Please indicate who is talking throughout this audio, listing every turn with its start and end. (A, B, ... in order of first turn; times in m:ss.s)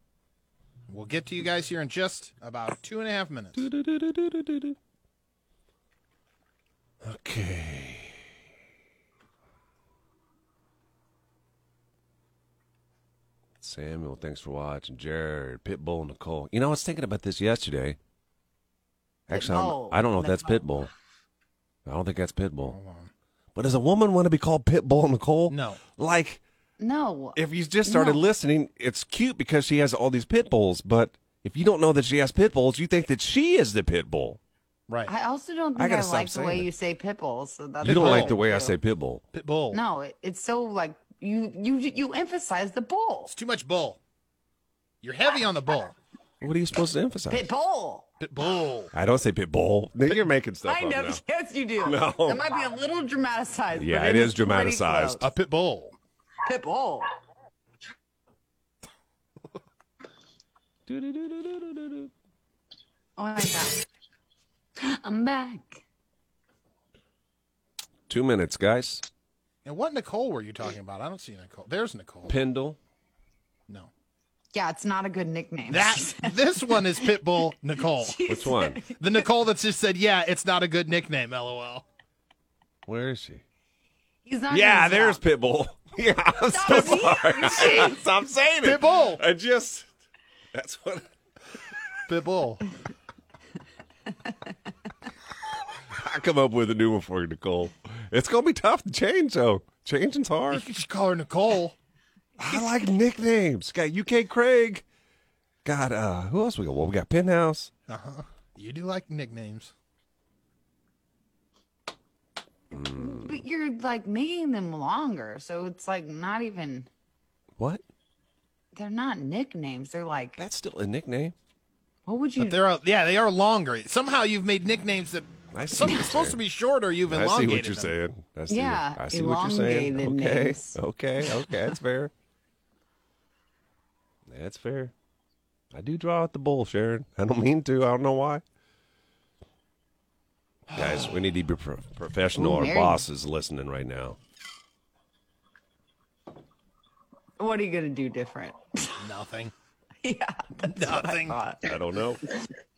0:00.9-0:03.6 A
0:03.6-0:04.8 B
0:07.0-0:08.2 B
0:13.6-0:18.0 B
0:19.3-0:20.9 B
0:19.3-0:20.7 C
0:21.9-0:22.8 B
0:22.7-0:23.1 A
0:23.6-0:26.4 B
0:25.5-0:25.8 A
0:26.8-0:28.2 C
0:27.4-0:34.4 B
0:35.1-0:38.8 C
0:35.8-0:36.7 B
0:37.8-0:39.2 B
0:37.9-0:38.4 A
0:39.3-0:39.8 A
0:39.7-0:43.3 C
0:43.3-0:44.0 A
0:45.0-0:46.0 A
0:46.4-0:47.5 B
0:47.3-0:48.1 C
0:48.2-0:48.9 A
0:48.9-0:51.2 B
0:50.6-0:55.2 C
0:51.8-0:52.4 B
0:53.7-0:55.3 B
0:55.2-0:55.9 A
0:56.4-0:57.1 C
1:00.9-1:02.1 B
1:03.2-1:03.8 C
1:04.8-1:05.8 C
1:08.1-1:09.0 B
1:09.6-1:12.4 A
1:12.3-1:12.8 B
1:14.5-1:16.3 C
1:15.7-1:18.2 A
1:18.0-1:19.2 C
1:18.3-1:18.8 B
1:19.0-1:21.8 A
1:22.9-1:23.4 B
1:24.3-1:25.2 C
1:24.5-1:29.9 B
1:26.5-1:28.0 C
1:28.6-1:29.2 A
1:30.5-1:31.1 B
1:32.1-1:32.6 A
1:35.9-1:40.6 B
1:40.5-1:41.8 A
1:42.4-1:44.8 B
1:45.6-1:47.7 B
1:47.9-1:49.7 A
1:52.7-1:53.4 B
1:52.8-1:56.9 C
1:57.6-1:57.8 B
1:58.8-2:00.4 C
2:00.4-2:01.3 B
2:02.1-2:02.6 C
2:02.4-2:07.9 A
2:05.5-2:06.4 B
2:07.1-2:12.1 B
2:08.5-2:10.8 C
2:14.3-2:14.9 B
2:15.7-2:18.4 B
2:20.7-2:24.2 B
2:22.4-2:23.0 C
2:27.4-2:29.0 C
2:29.0-2:29.5 A
2:30.0-2:31.6 C
2:30.7-2:31.4 A
2:31.6-2:32.2 B